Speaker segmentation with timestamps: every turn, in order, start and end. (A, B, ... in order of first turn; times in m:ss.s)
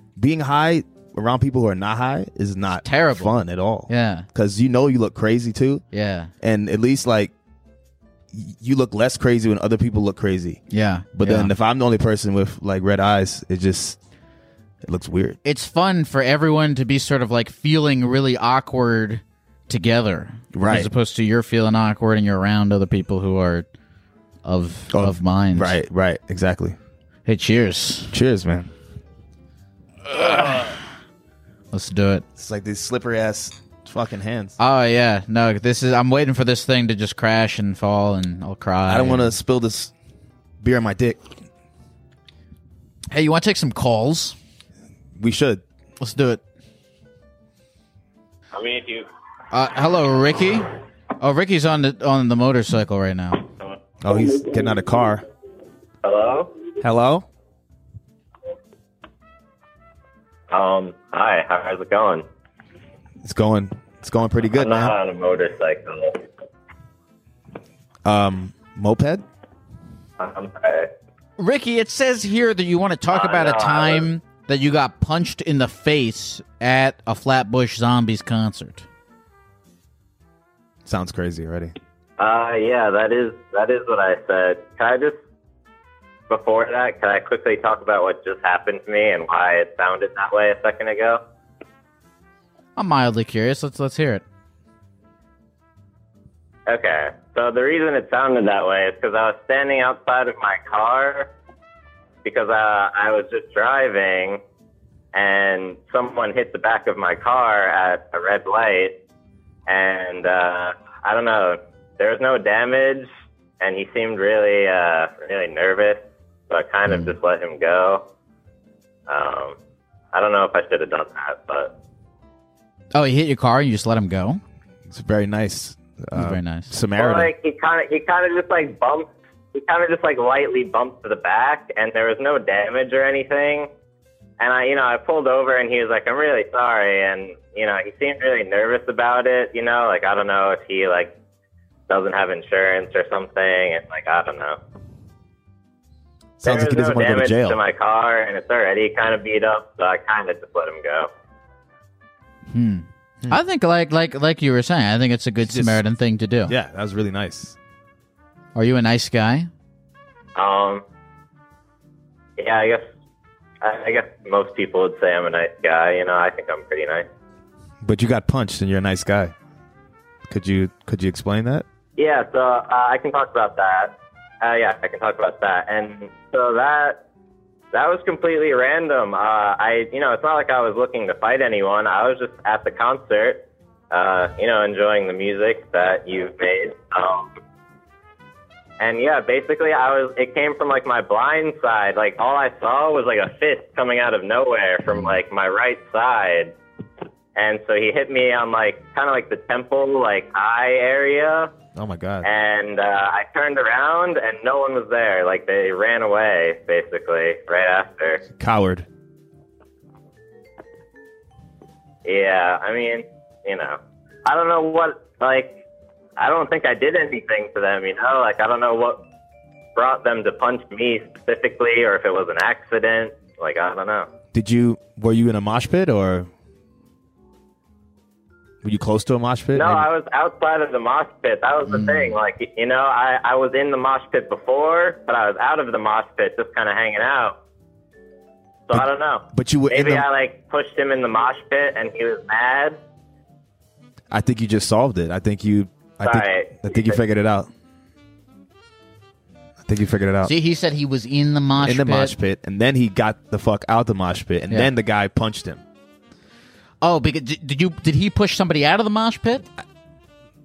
0:00.2-0:05.8 A
0:02.8-0:03.3 B
0:03.9-0:04.3 B
0:05.9-0:06.3 B
0:06.4-0:07.3 A
0:08.3-0:10.6 A
0:10.7-0:11.5 B
0:11.1-0:14.0 A
0:14.8-0:15.4 A
0:15.4-0:23.7 B
0:20.5-0:20.9 A
0:24.4-0:25.8 B
0:24.9-0:26.8 A
0:27.3-0:28.1 B
0:28.1-0:28.7 A
0:30.1-0:30.8 B
0:31.7-0:32.2 B
0:32.4-0:34.6 A
0:34.6-0:39.3 B
0:38.9-0:39.9 A
0:40.6-0:41.2 A
0:43.1-0:44.4 B
0:45.2-0:45.6 A
0:46.0-0:46.4 B
0:48.5-0:49.1 C
0:49.5-0:53.4 B
0:54.0-0:55.2 A
0:56.0-0:56.5 C
0:56.8-0:57.3 A
1:00.5-1:02.2 C
1:03.2-1:04.9 A
1:04.6-1:06.2 C
1:08.0-1:09.2 A
1:10.2-1:10.9 C
1:11.4-1:18.9 B
1:13.1-1:14.1 C
1:20.9-1:21.7 A
1:22.2-1:25.2 C
1:26.3-1:31.2 C
1:32.8-1:34.2 B
1:36.7-1:41.3 C
1:42.2-1:44.4 C
1:45.1-1:49.0 C
1:49.7-1:53.1 C
1:53.6-1:58.0 C
1:56.9-1:57.1 B
1:59.1-1:59.6 C
2:00.1-2:01.7 C
2:02.9-2:04.4 B
2:04.9-2:07.3 A
2:06.2-2:06.7 B
2:07.0-2:13.7 C
2:14.4-2:21.1 C
2:21.9-2:24.6 C
2:26.4-2:27.6 A
2:26.4-2:31.1 C
2:32.5-2:36.5 B
2:35.4-2:35.8 A
2:36.5-2:37.6 A
2:38.6-2:39.5 B
2:40.4-2:40.8 C
2:42.4-2:42.8 C
2:43.6-2:47.1 C
2:47.8-2:49.3 A
2:50.3-2:51.6 A
2:52.0-2:57.0 C
2:57.7-3:07.3 C
3:08.8-3:16.5 C
3:14.9-3:15.2 B
3:17.4-3:21.5 C
3:21.8-3:22.3 A
3:22.2-3:28.2 C
3:28.4-3:28.9 A
3:32.0-3:35.6 C
3:36.2-3:39.0 C
3:39.8-3:44.1 C
3:44.3-3:46.3 A
3:48.6-3:49.9 A
3:49.5-3:57.4 C
3:51.7-3:52.2 B
3:58.7-4:02.8 C
3:58.7-4:00.1 A
4:04.1-4:07.5 A
4:06.0-4:07.0 C
4:09.6-4:10.3 A
4:10.2-4:12.2 B
4:11.6-4:15.6 A
4:16.8-4:19.5 B